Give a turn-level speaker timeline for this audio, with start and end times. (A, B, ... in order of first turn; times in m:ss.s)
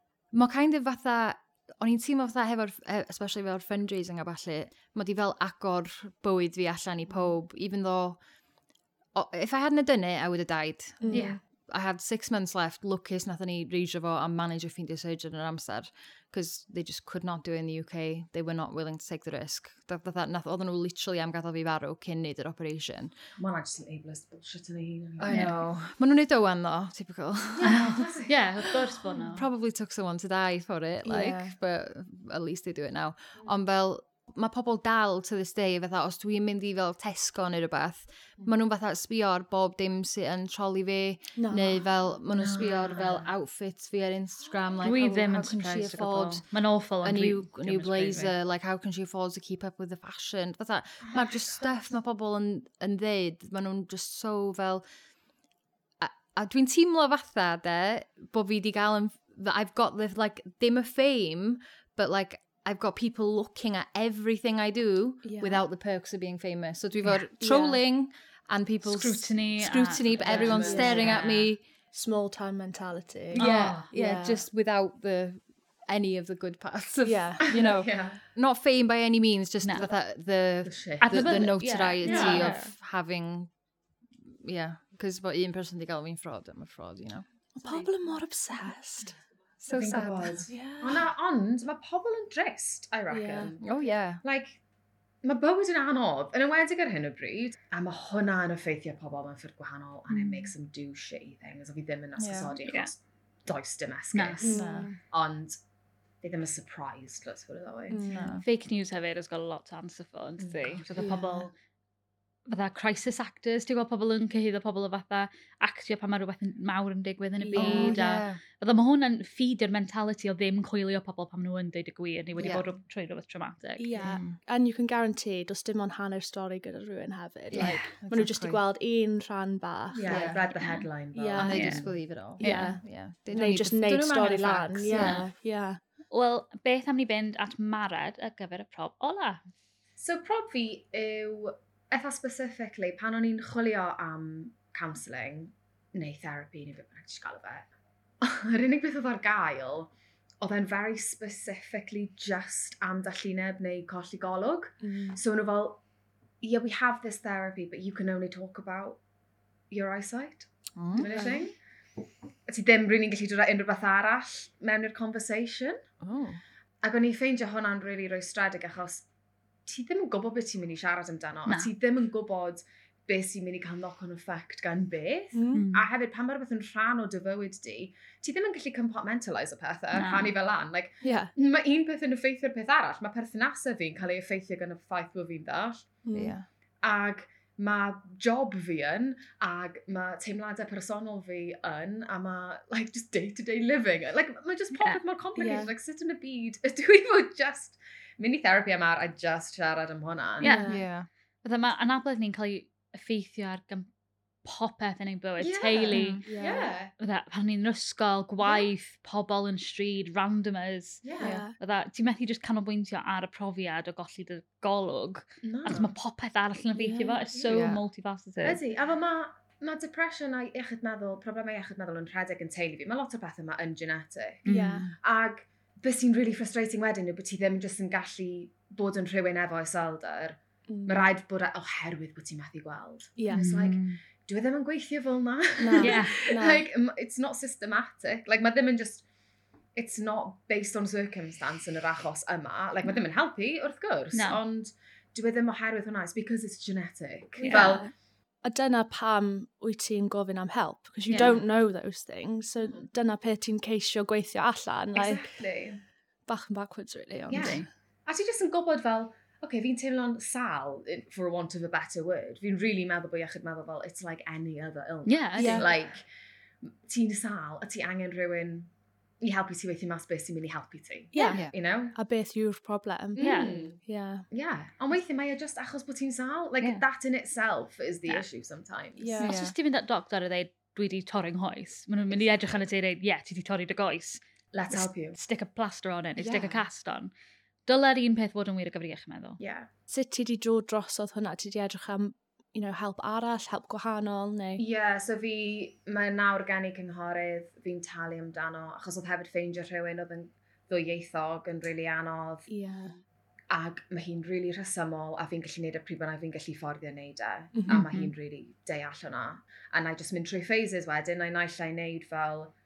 0:00.3-0:08.2 A
0:09.1-0:23.1 A
0:11.0-0:11.4 B
0:11.1-0:11.4 C
0:23.4-0:25.6 D
0:25.2-0:28.0 A
0:27.6-0:28.8 D
0:27.6-0:29.4 C
0:29.3-0:46.4 A
0:31.0-0:31.5 B
0:41.4-0:41.8 B
0:42.3-0:43.3 D
0:44.8-0:48.3 C
0:47.0-0:54.8 A
0:51.1-0:51.4 D
0:56.0-1:11.6 A
1:05.2-1:05.6 B
1:07.4-1:07.8 B
1:08.8-1:11.5 C
1:10.2-1:11.2 D
1:10.6-1:11.2 B
1:11.9-1:14.4 B
1:13.4-1:23.5 A
1:13.4-1:13.9 C
1:17.0-1:17.4 B
1:17.4-1:18.2 D
1:20.6-1:21.4 D
1:21.0-1:22.7 C
1:22.0-1:22.5 D
1:24.2-1:27.2 A
1:27.6-1:29.2 B
1:29.6-1:30.4 A
1:29.7-1:33.6 D
1:30.5-1:31.1 B
1:33.1-1:33.5 B
1:33.6-1:34.2 A
1:34.2-1:34.6 D
1:35.2-1:45.6 D
1:42.2-1:42.5 A
1:44.1-1:44.5 C
1:44.4-1:45.0 B
1:44.5-1:44.9 A
1:46.2-1:48.1 D
1:47.9-1:48.4 B
1:48.1-1:48.4 A
1:48.4-1:51.5 C
1:50.4-1:51.2 D
1:51.0-1:51.5 B
1:52.5-2:03.9 C
1:57.4-1:58.0 B
1:57.6-1:58.4 A
2:02.4-2:02.6 A
2:03.8-2:10.4 B
2:04.0-2:04.4 A
2:07.5-2:08.6 A
2:09.9-2:11.9 D
2:10.1-2:10.4 A
2:10.6-2:10.8 C
2:11.1-2:11.7 B
2:11.3-2:15.2 A
2:11.5-2:11.8 C
2:12.4-2:15.8 B
2:12.4-2:12.7 C
2:14.9-2:15.2 C
2:16.1-2:19.4 C
2:20.0-2:27.7 D
2:28.2-2:29.9 D
2:30.4-2:35.8 D
2:34.8-2:35.2 B
2:36.4-2:39.0 D
2:39.7-2:41.5 D
2:40.8-2:41.1 A
2:41.0-2:41.4 B
2:42.5-2:45.8 D
2:46.0-2:46.4 A
2:46.8-2:49.0 D
2:49.6-3:05.9 D
2:51.5-2:51.7 C
2:55.3-2:55.6 B
2:55.5-2:55.9 C
2:59.9-3:00.3 C
3:01.0-3:01.3 B
3:06.0-3:06.3 B
3:06.1-3:06.4 A
3:06.8-3:20.5 D
3:14.7-3:15.0 C
3:15.4-3:15.7 B
3:20.4-3:20.8 C
3:20.4-3:20.8 B
3:20.7-3:21.1 A
3:21.4-3:23.9 C
3:24.4-3:26.2 C
3:25.4-3:26.9 D
3:25.9-3:26.2 A
3:26.2-3:26.7 B
3:27.0-3:38.6 C
3:28.4-3:28.7 D
3:31.0-3:31.4 D
3:31.2-3:31.5 B
3:35.4-3:35.9 D
3:36.8-3:37.2 B
3:37.3-3:37.7 D
3:37.5-3:37.8 A
3:38.4-3:59.0 D
3:44.4-3:44.9 C
3:44.5-3:44.9 B
3:50.7-3:51.1 B
3:53.2-3:53.4 B
3:53.3-3:54.0 C
3:55.6-3:56.6 B
3:55.8-3:56.2 C
3:59.7-4:07.9 D
4:04.1-4:04.4 C
4:07.4-4:07.9 B
4:07.4-4:07.8 C
4:08.4-4:15.3 B
4:11.1-4:11.4 C
4:11.1-4:11.4 D
4:14.9-4:15.8 D
4:16.3-4:17.6 B
4:17.3-4:26.0 D
4:17.3-4:17.7 C
4:25.0-4:25.7 C
4:25.4-4:25.7 B
4:26.6-4:28.7 D
4:29.2-4:31.9 D
4:31.1-4:33.2 B
4:31.3-4:31.5 A
4:33.1-4:33.8 D
4:33.2-4:33.5 C
4:33.8-4:34.2 B
4:34.3-4:39.2 D
4:39.0-4:39.4 B
4:39.2-4:39.5 A
4:39.2-4:47.1 C
4:42.1-4:42.6 D
4:44.5-4:45.2 D
4:46.2-4:46.5 B
4:47.6-4:49.4 C
4:49.4-4:49.7 D
4:49.9-4:54.6 B
4:54.6-5:02.5 D
5:02.5-5:03.0 B
5:03.5-5:12.5 D
5:07.5-5:07.8 B
5:07.7-5:08.1 C